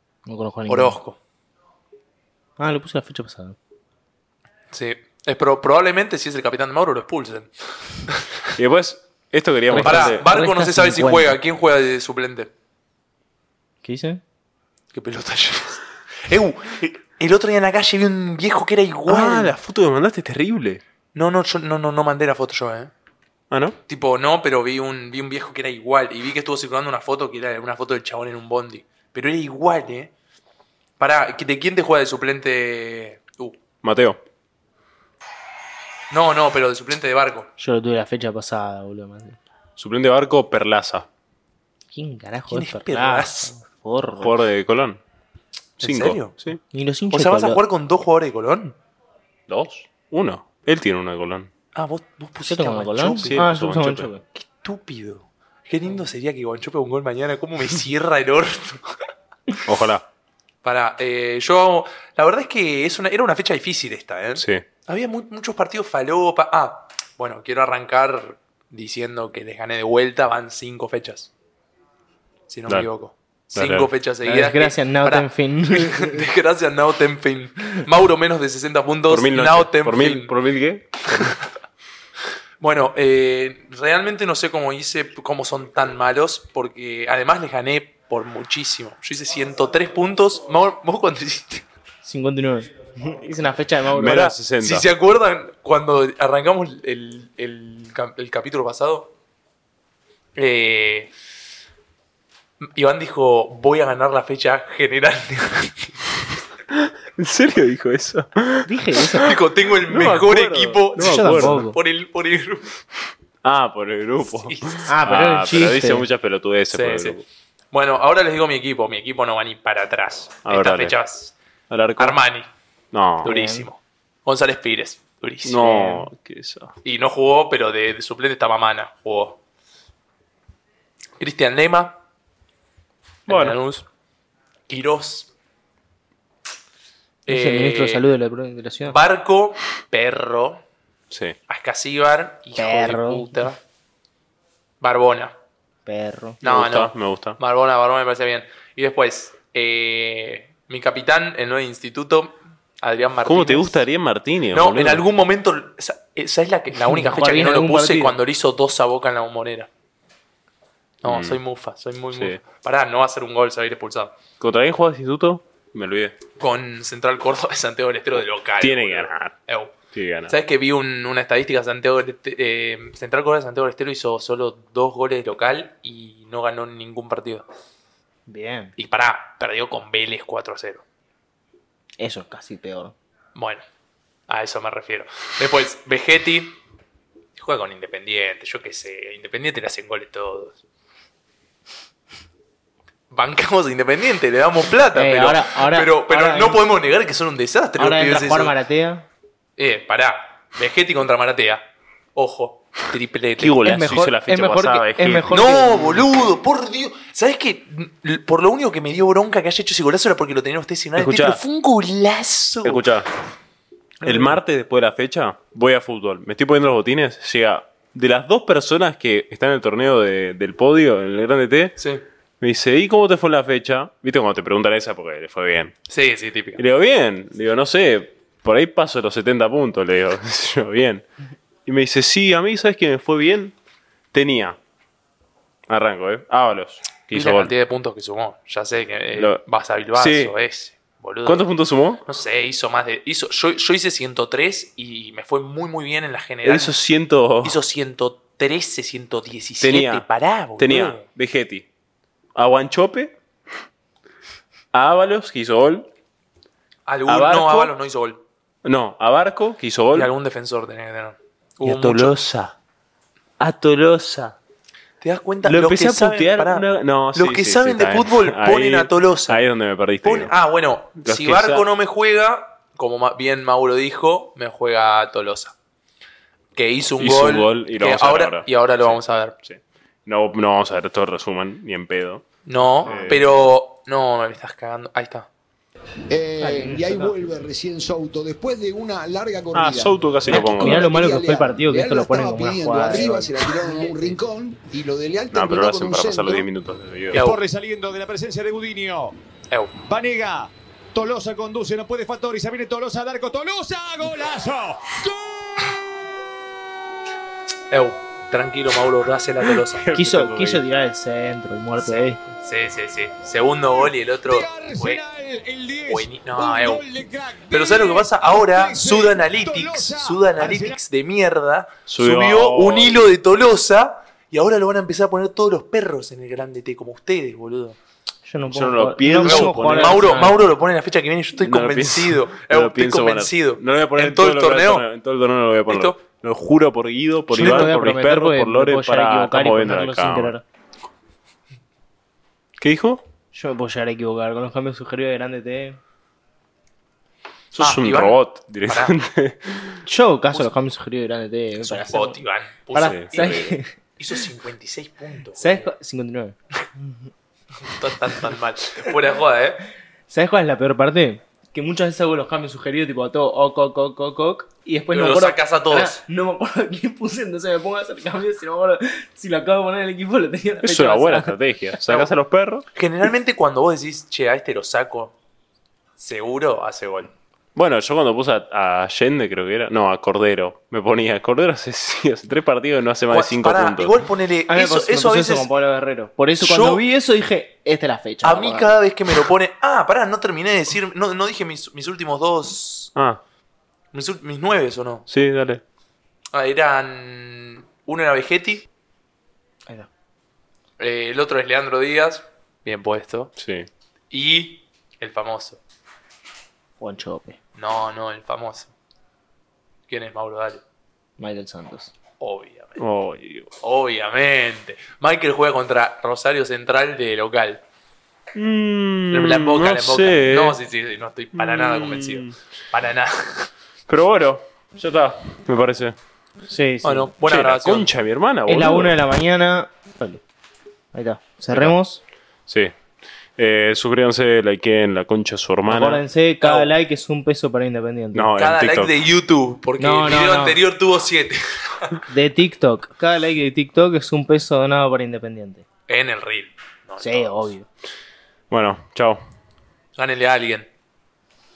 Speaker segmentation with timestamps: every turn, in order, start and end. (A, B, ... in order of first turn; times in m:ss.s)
0:00.3-0:01.0 A
0:00.7-0:01.2 B
0:02.6-0:03.6 A
0:04.7-0:07.5 B
0:08.6-0:10.2 C
0:09.7-0:11.4 A
0:09.8-0:12.5 B
0:13.8-0:14.2 A
0:14.9-0:19.5 B
0:19.1-0:20.8 C
0:21.2-0:22.9 B
0:23.5-0:23.8 C
0:23.9-0:30.1 B
0:31.0-0:33.6 B
0:33.8-0:34.2 C
0:36.1-0:37.5 B
0:37.6-0:39.4 A
0:39.8-0:41.1 C
0:41.9-0:44.4 A
0:42.5-0:43.6 B
0:44.2-0:45.0 C
0:45.8-0:46.4 B
0:45.8-0:46.6 C
0:46.7-0:47.6 A
0:47.1-0:48.8 B
0:49.5-0:51.5 C
0:51.8-0:53.4 B
0:52.4-0:54.2 A
0:53.2-0:54.1 C
0:54.4-0:59.0 B
0:59.6-1:00.0 C
1:00.6-1:11.3 B
1:04.4-1:04.6 C
1:12.5-1:20.3 B
1:13.6-1:13.9 C
1:14.2-1:16.2 A
1:19.1-1:21.4 C
1:22.6-1:31.7 B
1:32.0-1:34.2 A
1:33.9-1:34.9 C
1:34.0-1:39.1 B
1:40.4-1:41.1 B
1:42.6-1:45.9 B
1:46.7-1:49.3 C
1:48.7-1:49.4 A
1:49.2-1:52.7 B
1:49.9-1:51.6 C
1:51.0-1:51.8 A
1:53.4-1:57.2 C
1:54.3-1:54.9 B
1:54.9-1:56.1 A
1:56.7-1:57.2 B
1:57.7-2:01.4 B
2:00.4-2:01.0 C
2:01.7-2:02.2 C
2:02.0-2:02.5 B
2:02.9-2:03.4 C
2:03.2-2:03.7 A
2:03.2-2:05.9 B
2:05.4-2:06.7 C
2:05.7-2:06.0 A
2:06.8-2:09.4 B
2:11.2-2:12.0 B
2:13.3-2:13.6 C
2:13.3-2:13.8 B
2:14.7-2:15.3 B
2:17.3-2:18.1 B
2:17.3-2:19.0 A
2:18.8-2:20.6 B
2:21.1-2:21.4 C
2:21.5-2:23.6 B
2:22.6-2:23.4 A
2:24.8-2:25.4 B
2:25.9-2:26.4 A
2:26.4-2:27.4 C
2:26.4-2:33.8 B
2:33.2-2:35.0 C
2:34.5-2:39.7 B
2:36.8-2:38.2 A
2:41.0-2:44.2 B
2:41.0-2:41.4 C
2:42.1-2:42.4 C
2:44.4-2:46.2 C
2:46.4-2:49.7 B
2:48.6-2:49.4 C
2:49.9-2:50.3 C
2:50.3-2:57.4 B
2:58.3-2:58.7 A
2:58.8-3:00.8 B
3:02.0-3:03.0 A
3:03.4-3:03.6 B
3:04.3-3:06.6 B
3:07.4-3:10.6 B
3:13.1-3:18.6 B
3:14.9-3:16.6 A
3:17.8-3:19.1 A
3:19.6-3:23.6 B
3:23.4-3:25.3 C
3:23.6-3:26.0 A
3:25.3-3:32.9 B
3:31.0-3:31.4 C
3:32.6-3:33.1 C
3:34.0-3:34.4 B
3:34.0-3:41.8 C
3:41.8-3:42.0 B
3:42.4-3:45.8 C
3:45.9-3:46.6 B
3:46.6-3:51.0 C
3:51.7-3:53.5 C
3:54.1-3:54.6 C
3:55.7-3:57.5 C
3:57.1-4:01.5 B
3:59.2-3:59.4 C
4:00.0-4:00.3 C
4:01.3-4:02.0 C
4:02.0-4:06.7 B
4:06.4-4:07.6 C
4:07.4-4:11.0 B
4:09.6-4:10.1 C
4:10.6-4:11.7 C
4:12.4-4:13.2 C
4:14.7-4:15.9 C
4:16.9-4:18.2 B
4:17.1-4:17.7 C
4:18.6-4:20.1 C
4:19.9-4:22.2 B
4:21.6-4:22.6 C
4:23.4-4:24.4 C
4:25.0-4:29.4 B
4:25.4-4:30.3 C
4:30.0-4:35.6 B
4:31.0-4:31.7 C
4:36.6-4:39.4 B
4:37.0-4:42.3 C
4:42.5-4:45.3 B
4:42.8-4:43.4 C
4:46.1-4:56.5 D
4:46.4-4:47.3 A
4:49.5-4:51.0 C
4:50.3-4:53.6 A
4:55.3-4:57.2 C
4:57.1-4:57.4 B
4:57.2-4:59.2 E
4:59.8-5:05.8 E
5:07.7-5:09.8 B
5:09.6-5:10.6 C
5:09.9-5:12.2 A
5:11.8-5:15.0 B
5:13.8-5:20.8 E
5:15.9-5:16.8 B
5:17.5-5:27.8 B
5:21.9-5:23.1 C
5:28.2-5:30.5 A
5:28.4-5:30.3 C
5:29.2-5:34.8 B
5:31.4-5:40.3 C
5:35.7-5:36.0 B
5:37.3-5:40.4 A
5:37.4-5:37.7 B
5:42.6-5:43.0 C
5:43.3-5:45.8 A
5:47.5-5:49.8 C
5:47.6-5:49.0 B
5:49.9-5:52.2 A
5:51.6-5:55.7 B
5:52.7-5:53.7 A
5:52.8-5:53.4 C
5:55.4-5:57.1 A
5:57.6-5:59.6 B
6:00.1-6:11.4 A
6:04.9-6:06.0 B
6:10.6-6:12.6 C
6:12.7-6:15.2 B
6:16.0-6:17.1 B
6:17.6-6:24.0 C
6:23.1-6:25.5 B
6:24.5-6:28.7 A
6:26.4-6:26.8 B
6:28.2-6:32.9 B
6:33.0-6:33.2 C
6:33.9-6:35.0 B
6:35.1-6:35.6 C
6:36.3-6:38.7 B
6:40.8-6:43.3 B
6:43.4-6:43.7 C
6:44.1-6:45.6 B
6:46.8-6:47.4 A
6:47.6-6:48.7 B
6:49.9-6:50.6 B
6:51.2-6:51.9 A
6:52.2-6:52.8 B
6:52.8-6:53.5 C
6:53.6-6:57.6 B
6:58.4-7:00.6 C
6:59.1-7:03.5 B
7:01.4-7:02.3 C
7:03.9-7:06.0 C
7:06.5-7:07.1 A
7:06.8-7:07.9 B
7:07.3-7:09.0 C
7:08.5-7:10.2 A
7:10.9-7:12.0 A
7:12.5-7:12.7 C
7:13.4-7:16.0 C
7:15.7-7:18.3 A
7:16.4-7:16.7 B
7:18.1-7:18.9 C
7:18.4-7:22.0 B
7:19.8-7:20.6 A
7:22.1-7:25.6 A
7:25.9-7:27.5 B
7:27.0-7:27.7 A
7:28.5-7:29.2 C
7:30.0-7:30.7 B